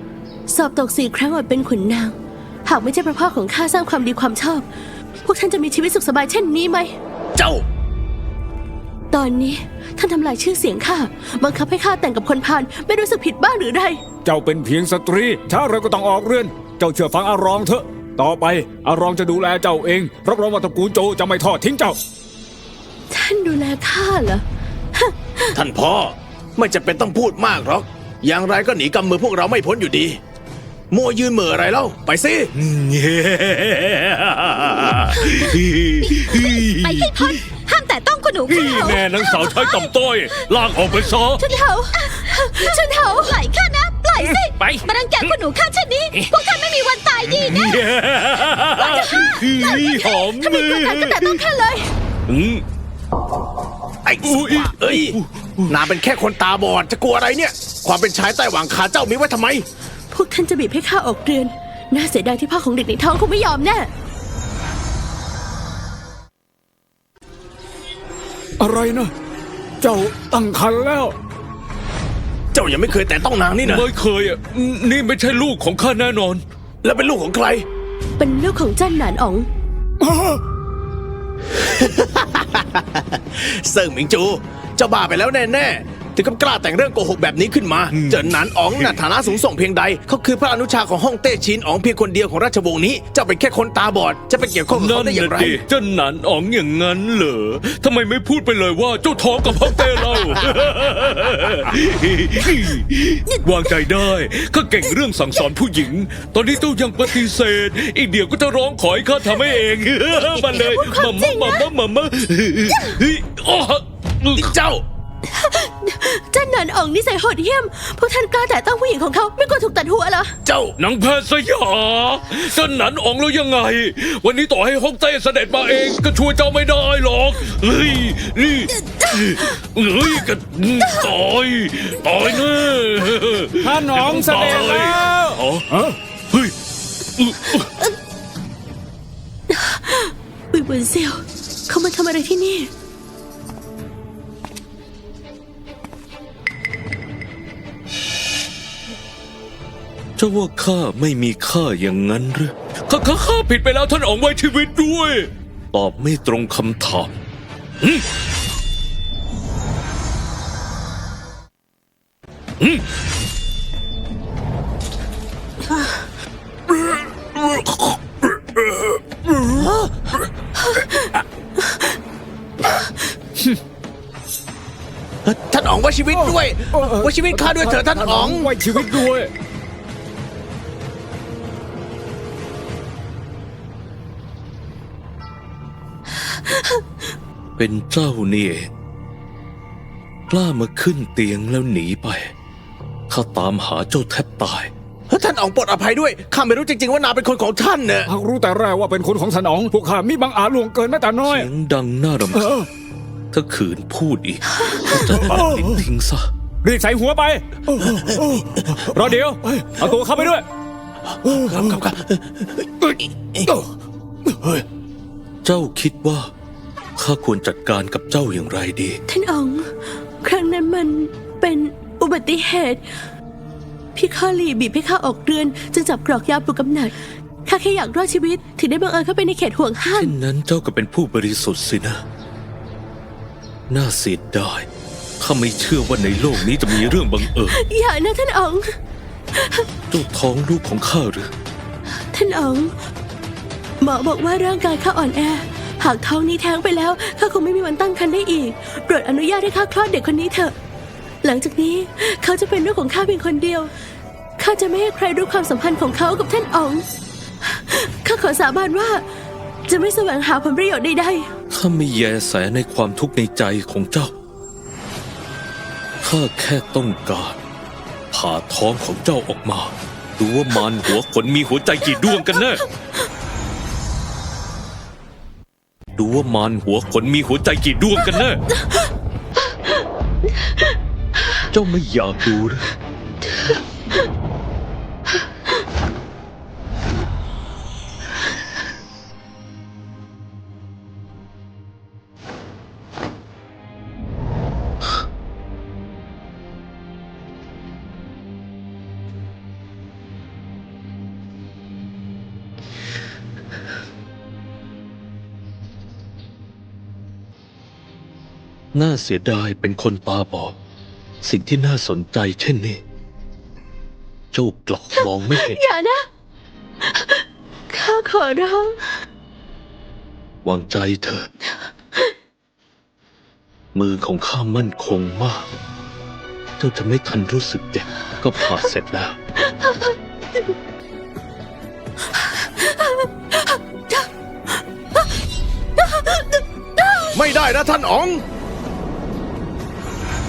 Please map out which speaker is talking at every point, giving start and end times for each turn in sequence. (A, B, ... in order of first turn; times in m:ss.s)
0:00.5-0:04.6 A
0:05.2-0:06.9 A
0:07.4-0:07.6 B
0:09.1-0:14.0 A
0:14.2-0:22.0 C
0:23.1-0:24.4 A
0:24.9-0:25.5 A
0:25.5-0:30.2 B
0:30.9-0:32.5 B
0:32.5-0:37.4 D
0:36.0-0:40.4 E
0:38.5-0:41.4 D
0:41.0-0:47.8 E
0:41.4-0:43.4 A
0:44.2-0:45.4 D
0:47.2-0:51.4 D
0:48.7-0:50.3 E
0:50.3-0:51.9 A
0:52.3-0:52.6 D
0:54.0-0:59.6 B
0:54.2-0:55.9 D
1:00.1-1:03.9 A
1:08.6-1:09.1 C
1:09.8-1:11.2 C
1:12.5-1:13.8 B
1:13.6-1:16.4 D
1:16.8-1:17.6 B
1:18.2-1:19.5 A
1:21.6-1:35.6 B
1:27.9-1:29.0 D
1:34.7-1:54.6 D
1:43.3-1:43.6 A
1:50.2-1:51.7 A
1:54.4-1:54.8 B
1:55.3-2:00.3 A
2:00.4-2:00.8 B
2:00.8-2:15.7 D
2:13.6-2:16.0 C
2:17.2-2:17.7 D
2:19.5-2:22.7 A
2:30.2-2:37.1 D
2:37.8-2:38.0 D
2:42.6-2:42.8 D
2:49.3-2:49.6 C
2:55.2-2:59.0 B
2:56.1-2:59.3 C
3:07.6-3:08.7 D
3:10.3-3:12.3 D
3:13.1-3:14.7 D
3:15.1-3:18.1 B
3:18.0-3:21.5 C
3:21.2-3:22.6 D
3:22.3-3:22.6 C
3:23.3-3:26.3 D
3:24.8-3:25.7 C
3:26.6-3:30.4 C
3:31.2-3:33.6 B
3:34.3-3:34.6 B
3:35.4-3:36.3 D
3:37.0-3:39.0 D
3:39.1-3:39.7 A
3:40.2-3:42.8 A
3:43.9-3:46.9 A
3:47.4-3:50.1 A
3:49.9-3:52.0 D
3:53.7-3:54.7 D
3:55.2-3:57.6 D
3:57.5-3:58.6 A
3:59.3-3:59.6 A
3:59.9-4:01.3 D
4:02.1-4:02.7 A
4:03.8-4:10.5 A
4:11.2-4:13.7 A
4:14.4-4:16.8 A
4:17.4-4:19.0 A
4:19.7-4:21.3 A
4:21.5-4:24.1 D
4:26.0-4:27.4 D
4:28.1-4:32.6 D
4:36.0-4:38.4 D
4:41.4-4:42.7 D
5:08.7-5:10.5 D
5:11.2-5:12.8 D
5:14.3-5:15.6 D
5:15.3-5:16.0 A
5:16.8-5:18.9 A
5:20.4-5:21.3 D
5:23.7-5:25.5 D
5:26.6-5:29.2 D
5:29.5-5:29.9 A
5:32.2-5:34.0 A
5:35.8-5:37.1 A
5:37.1-5:38.2 B